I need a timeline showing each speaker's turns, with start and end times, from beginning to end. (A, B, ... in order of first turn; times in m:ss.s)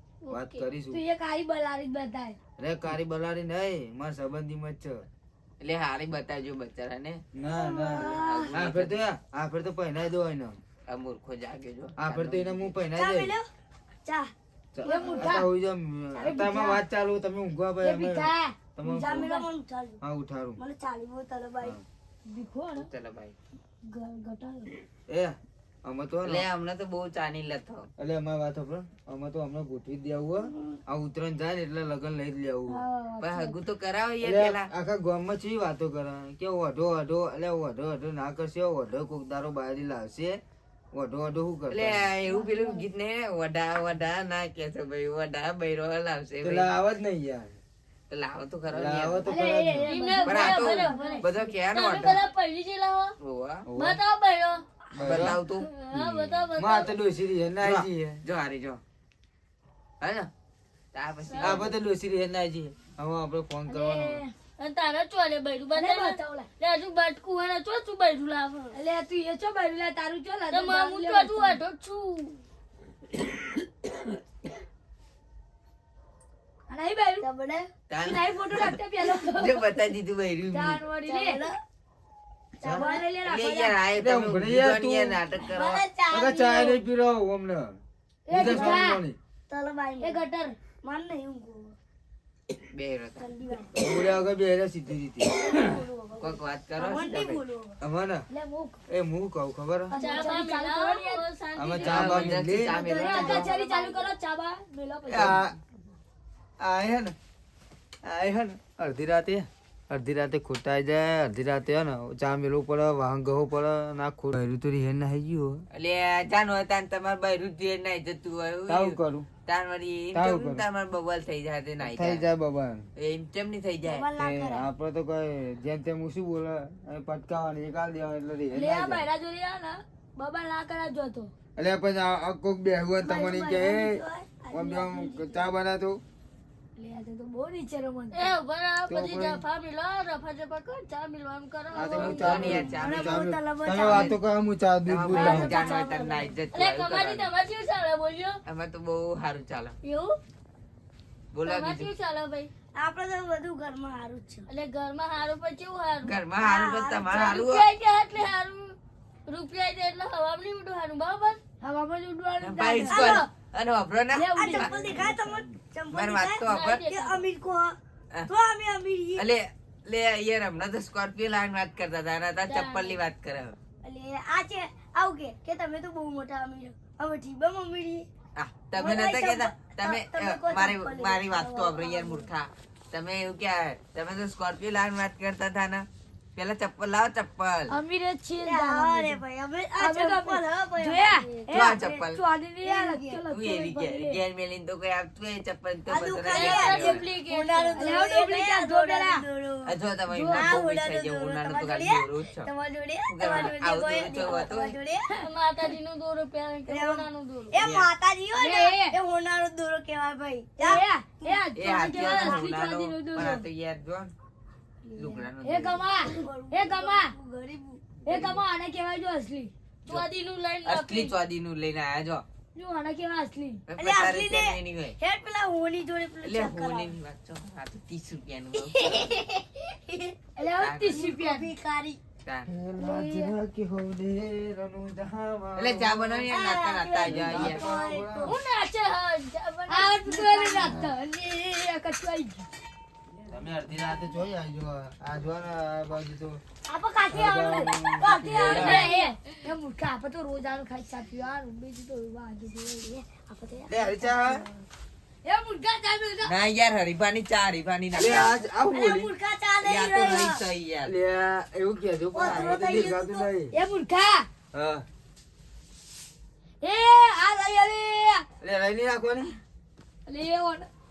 0:00.2-0:00.6 A
0:00.3-0:01.0 B
0:00.9-0:02.4 C
0:02.6-0:05.1 B
0:05.6-0:07.2 D
0:07.3-0:10.6 B
0:08.0-0:09.0 D
0:08.0-0:08.4 C
0:10.9-0:12.8 D
0:12.0-0:13.3 B
0:13.0-0:13.5 E
0:14.0-0:14.3 E
0:14.8-0:19.3 B
0:14.9-0:15.4 E
0:14.9-0:15.5 C
0:16.1-0:16.4 E
0:16.2-0:16.8 C
0:17.8-0:19.5 C
0:18.9-0:20.0 E
0:20.0-0:20.6 B
0:20.6-0:21.8 E
0:22.3-0:22.9 C
0:22.8-0:23.4 D
0:23.9-0:24.7 C
0:25.1-0:26.5 B
0:26.2-0:27.9 D
0:28.0-0:32.8 B
0:32.7-0:33.6 C
0:33.2-0:34.7 D
0:34.2-0:40.4 B
0:40.9-0:42.1 B
0:41.7-0:46.7 D
0:42.3-0:42.8 C
0:46.4-0:47.5 B
0:48.1-0:49.3 D
0:48.7-0:50.0 B
0:49.3-0:51.4 C
0:49.9-0:53.2 A
0:50.2-0:52.2 D
0:53.2-0:53.6 D
0:53.7-0:54.0 B
0:53.8-0:54.6 A
0:55.0-0:55.4 B
0:55.0-0:55.7 D
0:55.5-0:57.0 A
0:55.9-0:58.2 B
0:57.6-0:58.8 D
1:00.0-1:00.3 D
1:00.9-1:01.7 D
1:01.2-1:01.6 A
1:01.4-1:04.2 B
1:03.7-1:04.3 C
1:04.6-1:08.6 A
1:05.8-1:06.5 C
1:08.7-1:11.6 C
1:10.5-1:12.4 A
1:16.7-1:17.3 C
1:17.2-1:17.7 E
1:17.9-1:20.9 D
1:18.0-1:19.6 C
1:20.5-1:21.4 C
1:21.1-1:21.6 E
1:22.6-1:23.1 E
1:22.6-1:23.8 C
1:23.2-1:25.8 D
1:24.0-1:25.2 B
1:25.4-1:26.8 E
1:26.1-1:27.8 B
1:28.3-1:29.0 C
1:28.3-1:29.2 B
1:28.4-1:28.8 E
1:29.5-1:30.2 E
1:30.0-1:30.6 C
1:30.8-1:31.8 E
1:32.6-1:33.3 D
1:33.2-1:33.7 E
1:33.8-1:35.3 B
1:35.3-1:37.8 E
1:36.2-1:37.4 D
1:37.8-1:38.3 B
1:38.3-1:38.8 C
1:38.9-1:40.0 B
1:39.9-1:41.2 C
1:40.0-1:42.1 A
1:41.6-1:42.8 B
1:41.8-1:43.5 D
1:42.7-1:44.1 E
1:43.0-1:45.4 C
1:45.1-1:45.6 B
1:46.6-1:47.2 B
1:48.0-1:55.6 B
1:55.7-2:02.3 D
1:58.7-1:59.3 B
2:00.1-2:00.6 B
2:01.8-2:02.9 B
2:03.0-2:04.1 D
2:03.9-2:04.7 E
2:04.2-2:09.1 B
2:08.5-2:11.3 C
2:11.6-2:16.0 B
2:13.0-2:15.5 E
2:16.8-2:18.3 C
2:18.1-2:22.5 A
2:18.9-2:19.4 B
2:21.7-2:25.6 B
2:22.0-2:23.3 D
2:22.4-2:24.1 E
2:23.8-2:24.2 D
2:24.9-2:27.3 D
2:25.1-2:26.3 E
2:26.5-2:28.4 A
2:28.5-2:29.8 D
2:29.8-2:30.2 A
2:31.3-2:31.9 D
2:31.4-2:32.5 A
2:32.8-2:34.5 E
2:34.5-2:36.2 A
2:36.0-2:37.7 D
2:36.4-2:37.3 E
2:37.1-2:38.8 A
2:39.3-2:41.4 A
2:41.6-2:43.3 C
2:42.4-2:45.3 D
2:42.9-2:43.2 E
2:44.1-2:45.0 C
2:44.4-2:47.8 E
2:45.9-2:46.9 D
2:46.5-2:47.2 A
2:48.3-2:49.2 E
2:49.2-2:53.6 D
2:52.5-2:53.0 A
2:53.8-2:58.1 E
2:58.4-3:07.8 D
2:58.7-3:02.3 E
3:07.7-3:09.2 C
3:08.4-3:12.1 E
3:09.8-3:11.4 C
3:11.5-3:12.2 D
3:12.1-3:14.2 C
3:12.6-3:13.2 E
3:13.3-3:17.1 D
3:15.9-3:19.8 E
3:16.3-3:17.8 A
3:17.8-3:19.2 C
3:19.7-3:22.5 D
3:20.1-3:20.6 C
3:20.3-3:25.1 E
3:23.1-3:24.8 D
3:25.1-3:27.6 A
3:26.7-3:32.5 E
3:27.6-3:27.9 D
3:28.4-3:29.0 C
3:30.6-3:33.4 C
3:31.6-3:34.1 D
3:35.0-3:35.9 D
3:35.0-3:35.3 E
3:35.4-3:37.1 C
3:36.0-3:37.8 E
3:38.1-3:39.5 C
3:38.1-3:38.4 D
3:39.9-3:41.1 A
3:40.6-3:42.2 D
3:42.6-3:43.6 C
3:43.7-3:45.0 D
3:43.8-3:46.9 E
3:46.2-3:49.2 D
3:48.7-3:50.2 E
3:50.4-3:51.5 C
3:50.6-3:51.1 D
3:50.9-3:52.0 E
3:52.5-3:56.3 B
3:52.8-3:53.3 C
3:55.6-3:57.6 D
3:56.3-3:58.4 E
3:57.0-3:58.4 B
3:58.2-3:59.9 A
3:59.7-4:02.5 C
4:00.1-4:00.8 E
4:03.3-4:06.4 B
4:06.7-4:08.9 E
4:07.1-4:08.6 B
4:08.2-4:12.9 C
4:08.4-4:08.9 D
4:08.5-4:09.1 A
4:12.8-4:14.4 E
4:13.7-4:14.4 B
4:15.2-4:16.4 C
4:16.2-4:18.2 D
4:17.9-4:19.1 B
4:17.9-4:20.4 E
4:19.6-4:20.9 D
4:20.8-4:23.5 B
4:22.1-4:23.3 E
4:23.5-4:24.3 C
4:24.5-4:24.8 B
4:26.6-4:28.3 C
4:28.4-4:29.4 B
4:30.1-4:30.7 C